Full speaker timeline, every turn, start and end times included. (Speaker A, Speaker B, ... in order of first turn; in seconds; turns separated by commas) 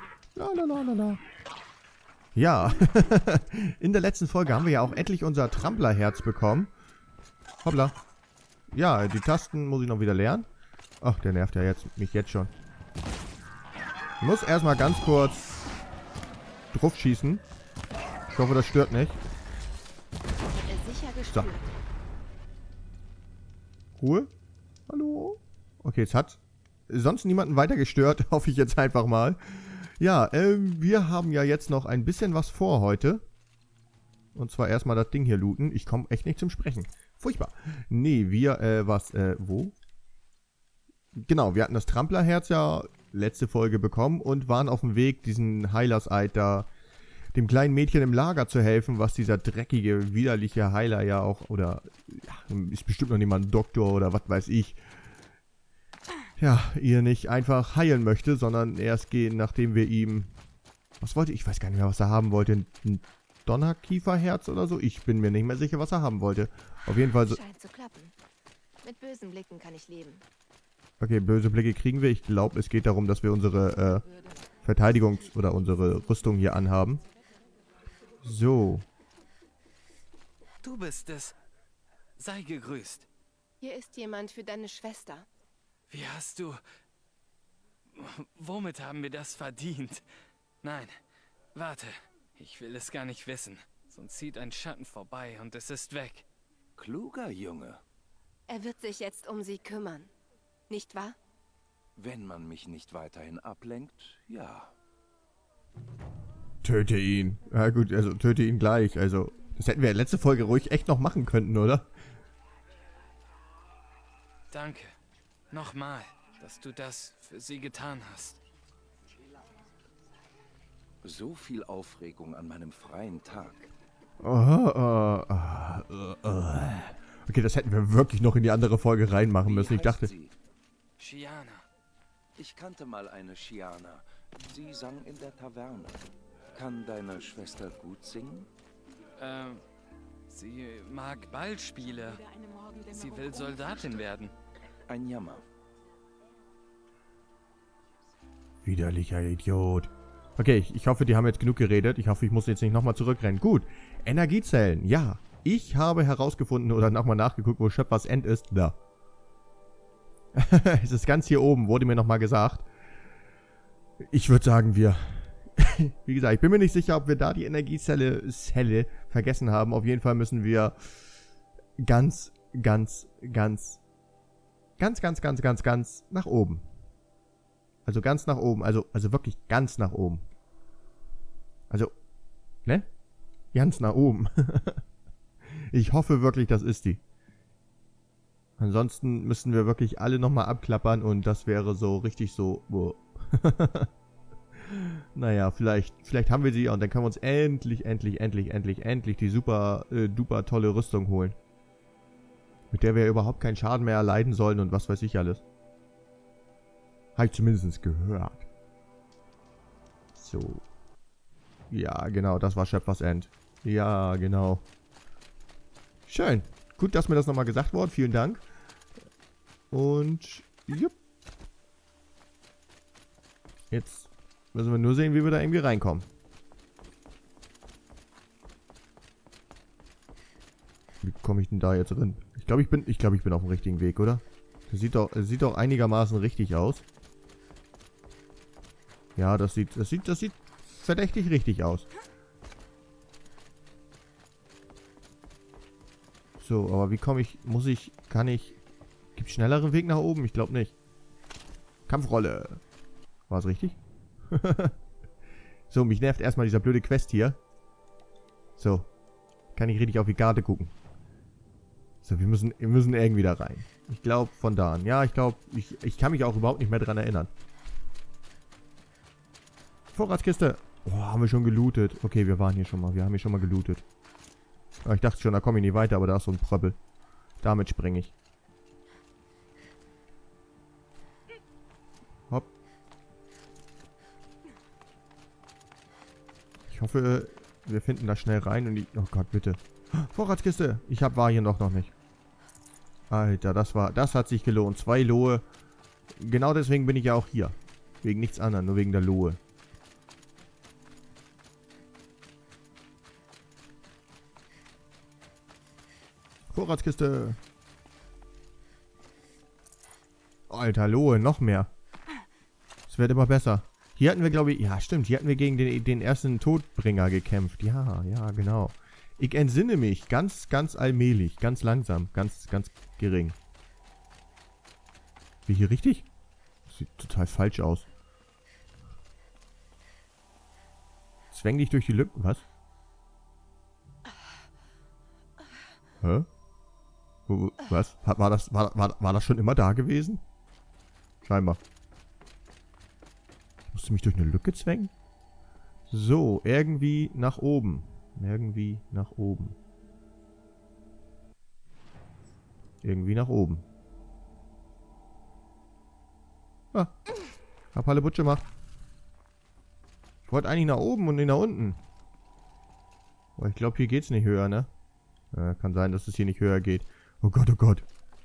Speaker A: 0.3-1.2, Speaker A: 2.3-6.7, Speaker A: 7.6-8.0, Speaker A: 8.7-10.5, Speaker A: 11.0-12.5, Speaker A: 14.2-15.4, Speaker A: 16.7-17.4, Speaker A: 18.3-19.2, Speaker B: 20.5-21.7, Speaker A: 24.0-24.3, Speaker A: 24.9-33.2, Speaker A: 34.3-39.7, Speaker A: 41.1-46.7, Speaker A: 47.3-54.8, Speaker A: 56.4-60.4, Speaker A: 61.0-67.4, Speaker B: 67.1-68.1, Speaker B: 68.8-70.2, Speaker A: 71.0-74.0, Speaker A: 74.6-77.0, Speaker A: 78.2-78.8, Speaker C: 80.6-81.3, Speaker C: 82.2-83.1, Speaker B: 83.6-85.3, Speaker C: 85.9-86.6, Speaker C: 87.9-90.0, Speaker C: 90.6-91.0, Speaker C: 91.5-96.2, Speaker D: 96.8-97.8, Speaker B: 98.5-100.1, Speaker B: 100.7-101.2, Speaker D: 102.0-104.7, Speaker A: 106.6-111.9, Speaker C: 114.5-114.9, Speaker C: 115.5-118.4, Speaker D: 121.0-123.7, Speaker A: 124.2-130.1, Speaker D: 129.4-130.3, Speaker C: 131.0-131.6, Speaker D: 132.3-138.5, Speaker C: 139.2-139.6, Speaker C: 140.3-144.3, Speaker D: 144.9-145.4, Speaker A: 148.6-158.8, Speaker A: 160.3-162.7, Speaker A: 164.0-171.0, Speaker A: 171.8-173.8, Speaker A: 174.8-176.7, Speaker A: 177.8-180.2, Speaker A: 183.5-184.8, Speaker A: 185.4-187.0, Speaker A: 188.6-193.9, Speaker A: 194.6-201.3, Speaker A: 202.7-205.4, Speaker A: 207.2-208.5, Speaker A: 210.1-210.6, Speaker A: 211.7-214.6, Speaker A: 216.1-218.4, Speaker A: 219.7-220.9, Speaker A: 223.7-226.1, Speaker A: 231.0-236.8, Speaker A: 239.2-241.9, Speaker A: 246.4-248.6, Speaker A: 249.2-250.8, Speaker A: 251.9-252.6, Speaker A: 253.3-253.8, Speaker A: 254.3-254.8, Speaker A: 255.7-257.4, Speaker A: 258.6-258.9, Speaker A: 259.5-260.7, Speaker A: 262.0-267.3, Speaker A: 269.9-273.8, Speaker A: 274.8-276.8, Speaker A: 277.4-278.1, Speaker A: 286.7-291.9, Speaker A: 293.1-295.4, Speaker A: 296.1-299.4, Speaker A: 306.5-307.4, Speaker A: 310.5-311.7, Speaker A: 312.9-323.4, Speaker A: 325.4-326.1, Speaker A: 326.7-327.9, Speaker A: 331.3-332.4, Speaker A: 336.0-336.3, Speaker A: 337.3-340.2, Speaker A: 341.2-341.6, Speaker A: 343.7-344.9, Speaker A: 345.9-349.6, Speaker A: 352.8-353.6, Speaker A: 357.7-358.4, Speaker A: 360.2-361.8, Speaker A: 363.4-364.7, Speaker A: 365.3-367.9